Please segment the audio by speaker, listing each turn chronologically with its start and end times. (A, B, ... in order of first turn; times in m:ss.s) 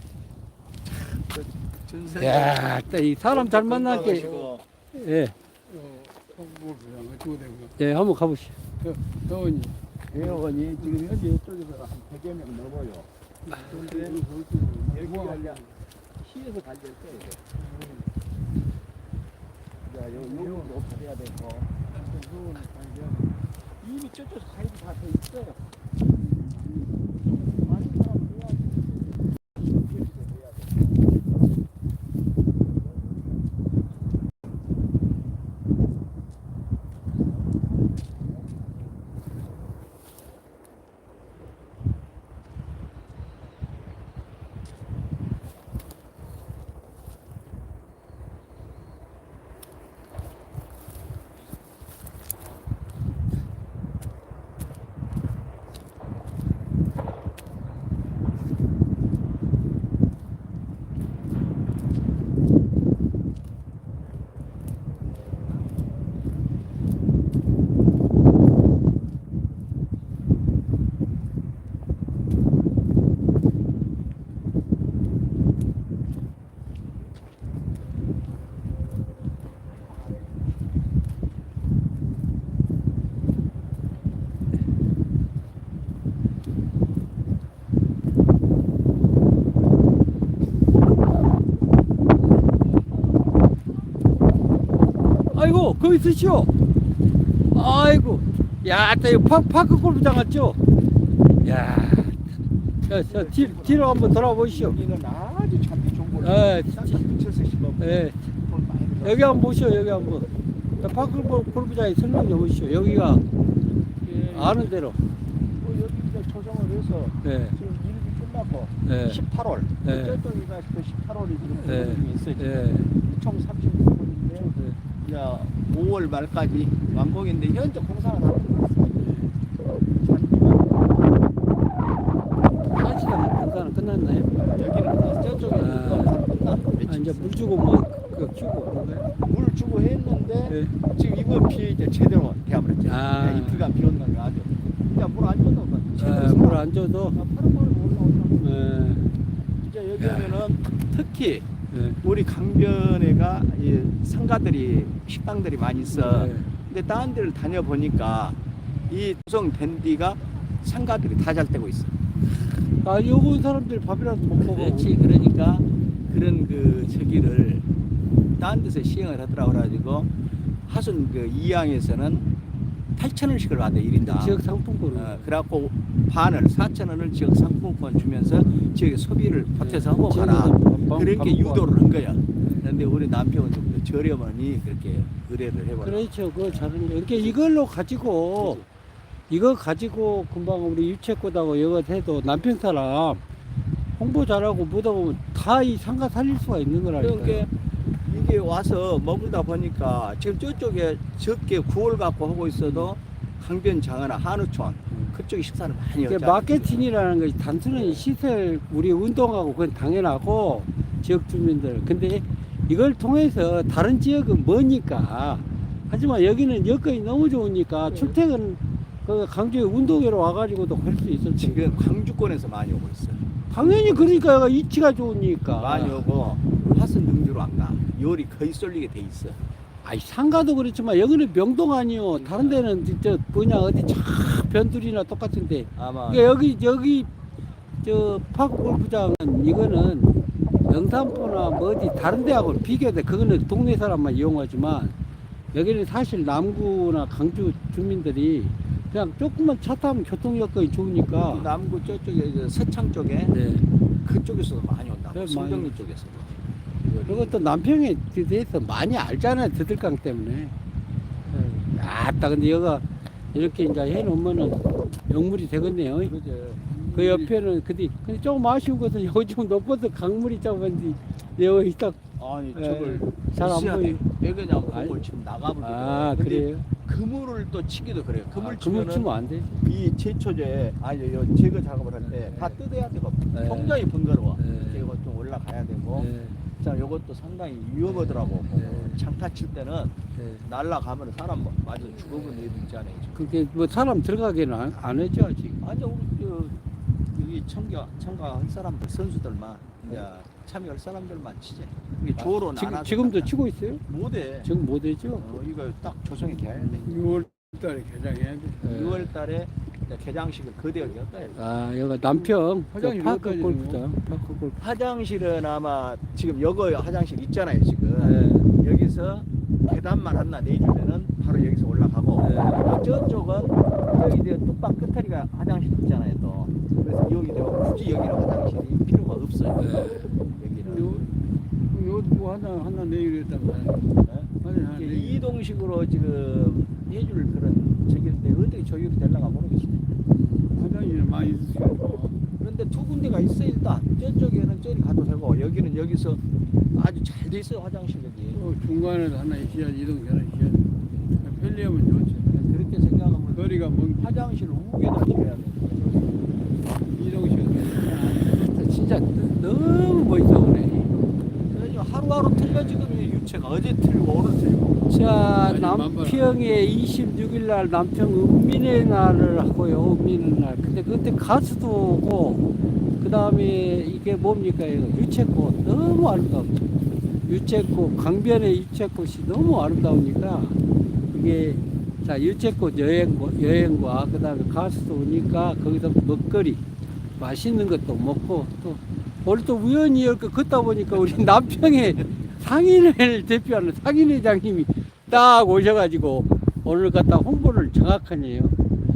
0:01.1-0:04.6 A
0:02.1-0:04.3 B
0:03.9-0:04.5 C
0:04.9-0:05.3 B
0:05.7-0:07.7 C
0:07.8-0:08.6 B
0:08.8-0:10.4 C
0:10.1-0:14.2 A
0:13.5-0:15.7 C
0:14.9-0:15.6 A
0:16.2-0:17.4 A
0:17.7-0:18.0 C
0:19.8-0:21.8 A
0:20.2-0:20.7 C
0:21.9-0:23.4 C
0:23.8-0:25.6 A
0:26.2-0:26.9 C
0:27.5-0:30.9 A
1:35.3-1:36.5 B
1:37.5-1:40.6 B
1:41.4-1:42.2 B
1:42.9-1:44.8 B
1:42.9-1:50.1 A
1:46.2-1:47.0 B
1:47.8-1:48.2 B
1:49.0-1:50.3 B
1:50.8-1:53.2 B
1:54.0-1:54.7 A
1:54.3-1:55.0 B
1:55.6-2:08.9 A
1:57.2-1:57.6 B
1:58.8-1:59.2 B
1:59.8-2:00.2 B
2:01.6-2:02.9 B
2:08.9-2:09.3 B
2:09.9-2:11.0 A
2:12.7-2:14.3 B
2:14.4-2:17.4 A
2:15.5-2:16.2 B
2:16.9-2:19.1 B
2:19.2-2:28.5 A
2:20.4-2:20.7 B
2:22.8-2:23.7 B
2:26.0-2:27.2 B
2:28.4-2:29.1 B
2:29.6-2:31.4 A
2:30.0-2:30.4 B
2:31.7-2:32.0 B
2:32.0-2:41.9 A
2:35.9-2:36.5 B
2:42.4-2:44.9 B
2:44.4-2:47.6 A
2:48.4-2:50.1 A
2:50.7-2:52.3 A
2:53.0-2:54.4 A
2:54.0-2:55.3 B
2:54.9-3:07.5 A
2:59.6-3:01.7 B
3:02.4-3:02.7 B
3:05.8-3:08.6 B
3:08.3-3:08.6 A
3:09.3-3:13.2 B
3:14.0-3:17.5 B
3:17.0-3:26.8 A
3:22.6-3:22.9 B
3:24.9-3:25.2 B
3:26.0-3:41.8 B
3:27.7-3:28.1 A
3:37.8-3:38.2 A
3:41.4-3:44.3 A
3:43.5-3:46.1 B
3:45.6-3:49.4 A
3:49.8-3:57.1 B
3:52.2-3:52.6 A
3:55.8-3:56.3 A
3:57.8-4:04.9 B
4:05.5-4:11.5 B
4:11.1-4:13.3 A
4:13.3-4:13.6 B
4:14.0-4:17.4 A
4:15.1-4:15.7 B
4:17.0-4:20.5 B
4:21.3-4:26.1 B
4:26.0-4:26.6 A
4:26.7-4:27.3 C
4:26.9-4:32.0 B
4:32.2-4:39.1 A
4:32.5-4:34.0 B
4:34.7-4:35.0 B
4:35.6-4:36.7 B
4:38.3-4:39.5 B
4:39.6-4:46.1 A
4:42.0-4:42.6 B
4:43.3-4:44.9 B
4:45.9-4:46.4 B
4:46.6-4:53.2 A
4:47.8-4:49.0 B
4:50.2-4:50.4 B
4:51.8-4:52.6 B
4:53.1-4:55.6 B
4:55.6-4:56.6 A
4:57.1-5:03.3 A
5:02.2-5:03.8 B
5:03.9-5:04.5 A
5:04.4-5:05.2 B
5:05.2-5:07.0 A
5:06.5-5:07.1 B
5:06.8-5:08.7 C
5:08.6-5:11.4 A
5:08.6-5:09.1 B
5:11.3-5:14.6 B
5:12.1-5:13.8 C
5:14.6-5:31.1 A
5:18.0-5:18.5 B
5:22.2-5:22.7 B
5:29.6-5:30.0 B
5:30.6-5:31.2 C
5:31.7-5:35.2 C
5:34.0-5:39.9 A
5:40.5-5:42.2 C
5:42.4-5:46.2 A
5:46.7-5:48.4 A
5:48.3-5:52.4 C
5:52.3-5:56.2 A
5:53.3-5:54.2 C
5:56.8-5:58.3 C
5:58.0-6:01.0 B
6:01.5-6:04.9 A
6:02.3-6:03.0 B
6:04.9-6:16.7 B
6:05.4-6:06.4 C
6:17.2-6:20.6 B
6:21.1-6:26.6 B
6:27.2-6:38.6 B